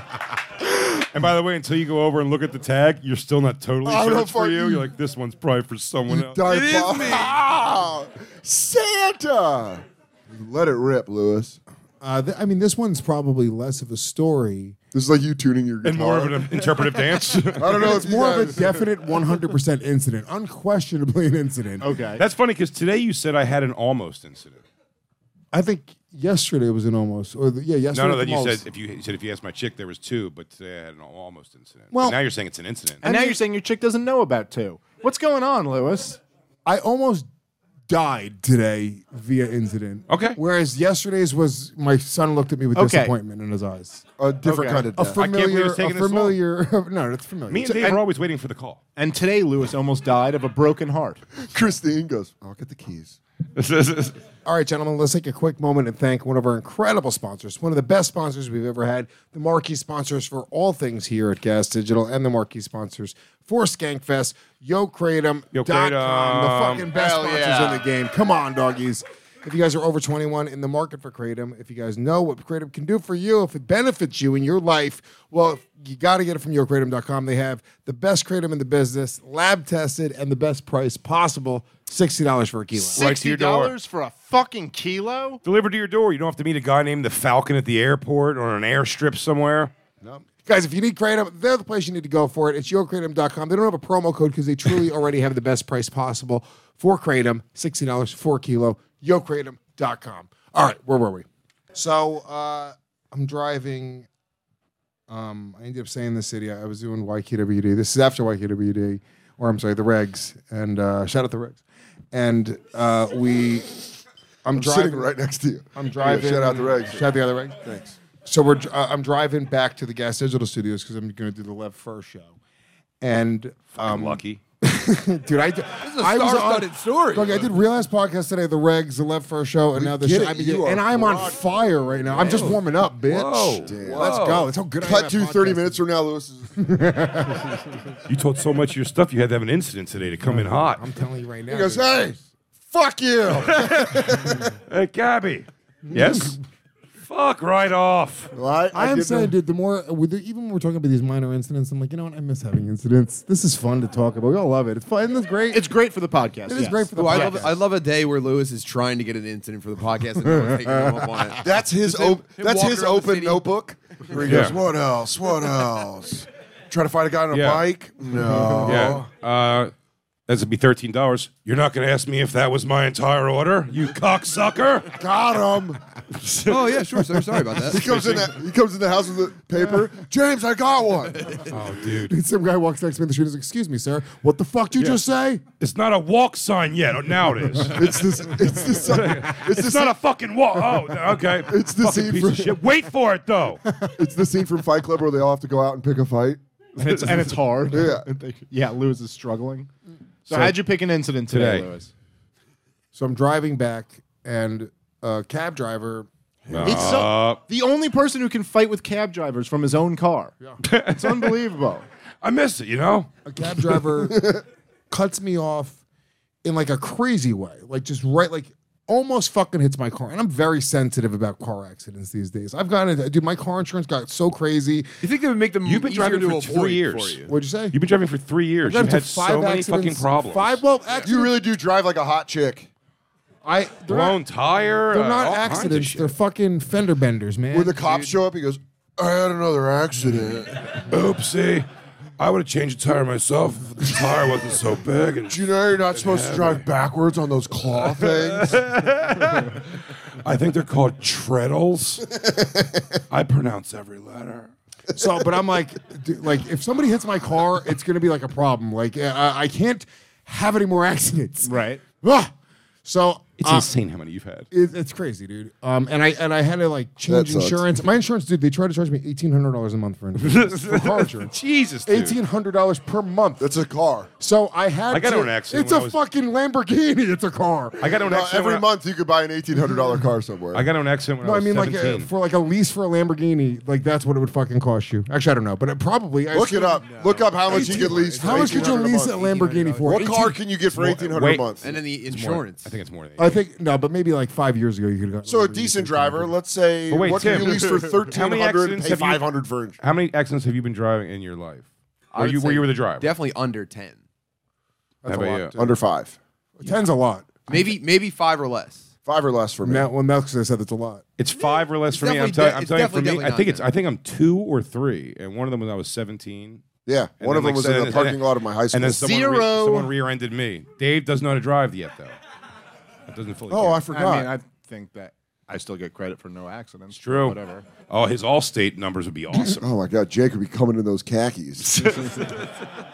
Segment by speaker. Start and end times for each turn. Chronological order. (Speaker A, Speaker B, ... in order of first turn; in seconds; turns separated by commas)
Speaker A: 0.8-6.7, Speaker B: 3.9-4.9, Speaker B: 6.1-11.6, Speaker C: 6.5-7.3, Speaker D: 12.0-14.8, Speaker B: 14.9-16.8, Speaker A: 15.8-18.0, Speaker B: 17.6-18.9, Speaker D: 17.7-21.9, Speaker E: 21.8-22.2, Speaker A: 22.2-24.6, Speaker D: 25.5-28.6, Speaker A: 27.9-33.1, Speaker D: 31.9-32.2, Speaker E: 33.0-36.2, Speaker D: 36.6-37.3, Speaker D: 37.9-44.0, Speaker A: 40.1-40.4, Speaker E: 42.8-43.1, Speaker B: 44.2-45.2, Speaker E: 44.5-44.9, Speaker D: 44.9-47.9, Speaker A: 45.2-46.4, Speaker A: 47.5-48.8, Speaker E: 49.0-51.2, Speaker B: 51.4-53.2, Speaker A: 53.6-54.1, Speaker D: 54.5-83.1, Speaker A: 65.5-66.9, Speaker C: 67.0-67.8, Speaker E: 82.9-85.4, Speaker A: 83.0-83.7, Speaker A: 85.4-89.7, Speaker D: 90.0-104.1, Speaker D: 105.1-111.6, Speaker D: 112.1-113.7, Speaker D: 114.5-115.1, Speaker B: 114.5-117.1, Speaker D: 115.8-117.6, Speaker B: 117.7-118.0, Speaker D: 118.2-122.3, Speaker D: 123.0-135.8, Speaker A: 123.8-124.4, Speaker C: 125.8-127.5, Speaker B: 129.8-131.4, Speaker B: 132.0-132.5, Speaker A: 132.3-134.5, Speaker B: 133.6-136.6, Speaker D: 136.6-137.6, Speaker A: 138.1-140.8, Speaker D: 140.2-142.0, Speaker B: 141.5-144.5, Speaker A: 143.3-146.4, Speaker D: 145.9-146.4, Speaker A: 147.0-148.3, Speaker B: 148.3-149.3, Speaker D: 148.7-155.7, Speaker E: 155.5-157.4, Speaker D: 156.5-157.6, Speaker C: 156.9-163.5, Speaker D: 160.3-161.3, Speaker B: 161.4-169.1, Speaker C: 164.1-164.4, Speaker A: 164.2-164.6, Speaker A: 167.3-167.6, Speaker A: 168.6-169.7, Speaker A: 170.3-174.9, Speaker B: 174.9-175.8, Speaker C: 176.4-178.3, Speaker B: 177.7-181.4, Speaker A: 181.5-182.1, Speaker D: 182.0-185.4, Speaker A: 185.6-188.0, Speaker B: 187.7-190.0, Speaker A: 188.8-193.6, Speaker B: 191.5-192.6, Speaker D: 193.7-193.9, Speaker B: 194.0-196.4, Speaker E: 196.8-199.7, Speaker B: 197.7-198.1, Speaker E: 200.3-201.9, Speaker A: 200.3-200.6, Speaker A: 201.3-201.7, Speaker D: 202.9-206.9, Speaker A: 206.5-207.4, Speaker E: 206.6-210.4, Speaker A: 210.6-211.4, Speaker E: 210.9-211.8, Speaker A: 212.2-213.1, Speaker D: 213.2-214.3, Speaker B: 214.1-214.4, Speaker D: 214.9-215.8, Speaker D: 216.4-224.9, Speaker C: 225.0-227.3, Speaker A: 225.6-227.2, Speaker D: 227.3-227.8, Speaker A: 227.7-230.6, Speaker D: 228.6-231.3, Speaker B: 231.0-232.7, Speaker D: 233.4-234.2, Speaker A: 233.9-236.1, Speaker D: 234.9-238.1, Speaker B: 237.5-240.8, Speaker A: 240.9-241.7, Speaker A: 242.2-246.6, Speaker B: 245.3-248.6, Speaker A: 247.8-249.7, Speaker A: 250.2-252.1, Speaker A: 253.1-254.5, Speaker D: 254.9-262.3, Speaker E: 261.4-261.8, Speaker D: 262.8-263.7, Speaker A: 263.4-264.5, Speaker D: 264.5-271.3, Speaker B: 267.1-267.6, Speaker A: 270.2-272.2, Speaker D: 271.9-273.5, Speaker B: 273.4-274.1, Speaker D: 274.2-277.9, Speaker A: 274.9-276.0, Speaker A: 277.8-278.7, Speaker B: 278.0-280.7, Speaker A: 280.5-282.1, Speaker D: 281.2-286.8, Speaker B: 286.3-289.2, Speaker C: 286.8-289.7, Speaker D: 287.5-290.4, Speaker B: 289.8-291.7, Speaker A: 290.7-293.4, Speaker C: 291.6-292.8, Speaker D: 293.2-296.3, Speaker B: 295.2-299.8, Speaker A: 296.9-299.3, Speaker A: 299.8-303.1, Speaker C: 302.1-304.0, Speaker A: 305.1-305.5, Speaker D: 305.1-305.7, Speaker B: 305.6-306.2, Speaker D: 306.6-307.3, Speaker C: 307.5-308.9, Speaker B: 309.1-309.9, Speaker D: 309.6-311.0, Speaker A: 311.2-316.6, Speaker C: 311.4-313.6, Speaker B: 316.9-319.2, Speaker A: 317.2-318.2, Speaker A: 318.7-322.2, Speaker E: 319.0-319.9, Speaker A: 323.1-323.8, Speaker B: 323.5-324.3, Speaker E: 323.9-327.7, Speaker A: 326.9-329.7, Speaker B: 329.6-332.1